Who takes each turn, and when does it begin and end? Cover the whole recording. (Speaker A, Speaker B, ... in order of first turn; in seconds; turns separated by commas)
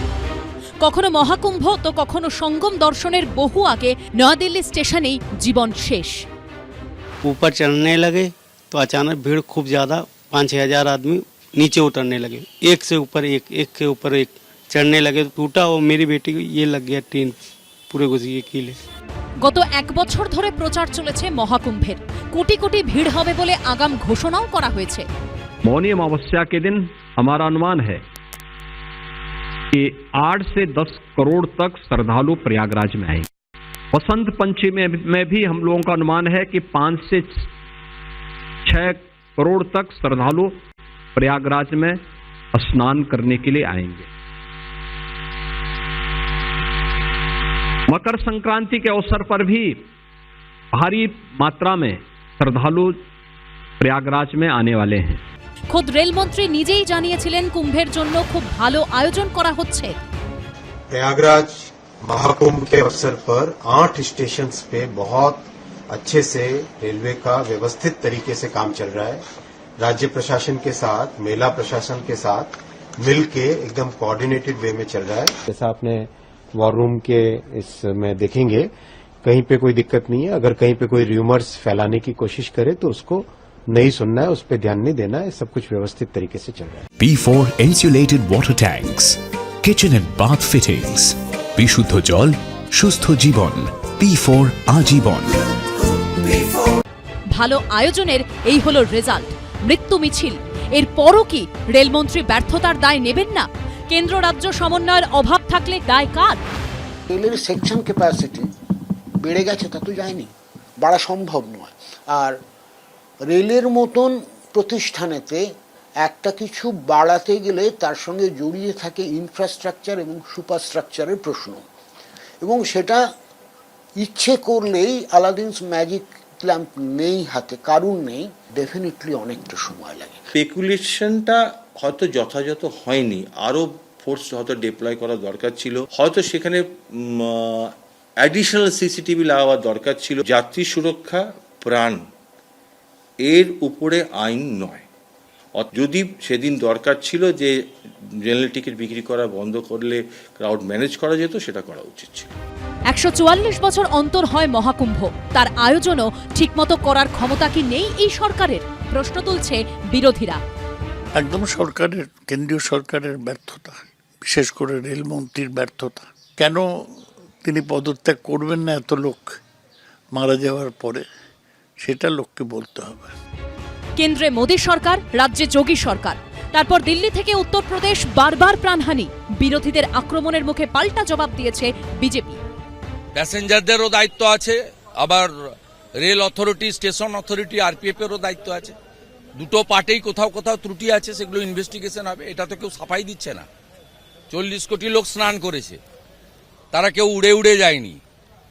Speaker A: 0.8-6.2, Speaker B: 7.3-8.2, Speaker B: 8.8-11.1, Speaker B: 11.6-14.2, Speaker B: 14.8-17.2, Speaker B: 17.9-18.7, Speaker A: 19.4-25.1, Speaker C: 25.7-28.0, Speaker C: 29.7-33.3, Speaker C: 33.9-37.4, Speaker C: 38.6-40.6, Speaker C: 41.1-42.0, Speaker C: 42.5-44.1, Speaker C: 47.9-49.8, Speaker C: 50.7-53.0, Speaker C: 53.8-55.2, Speaker A: 55.7-60.0, Speaker D: 60.9-69.2, Speaker D: 69.8-78.7, Speaker D: 79.2-86.8, Speaker E: 87.0-93.3, Speaker E: 93.8-95.3, Speaker A: 97.3-106.4, Speaker F: 107.1-108.5, Speaker F: 109.2-112.3, Speaker F: 113.3-115.4, Speaker F: 116.0-121.6, Speaker F: 122.4-123.0, Speaker F: 124.0-130.2, Speaker G: 130.3-142.0, Speaker G: 143.2-144.8, Speaker G: 145.6-147.5, Speaker G: 148.2-152.3, Speaker A: 152.9-160.4, Speaker H: 161.2-169.4, Speaker H: 170.1-171.1, Speaker H: 171.8-173.1, Speaker A: 174.0-182.4, Speaker I: 183.1-185.3, Speaker I: 186.0-188.7, Speaker I: 189.3-193.5, Speaker I: 194.3-195.8, Speaker I: 196.7-198.0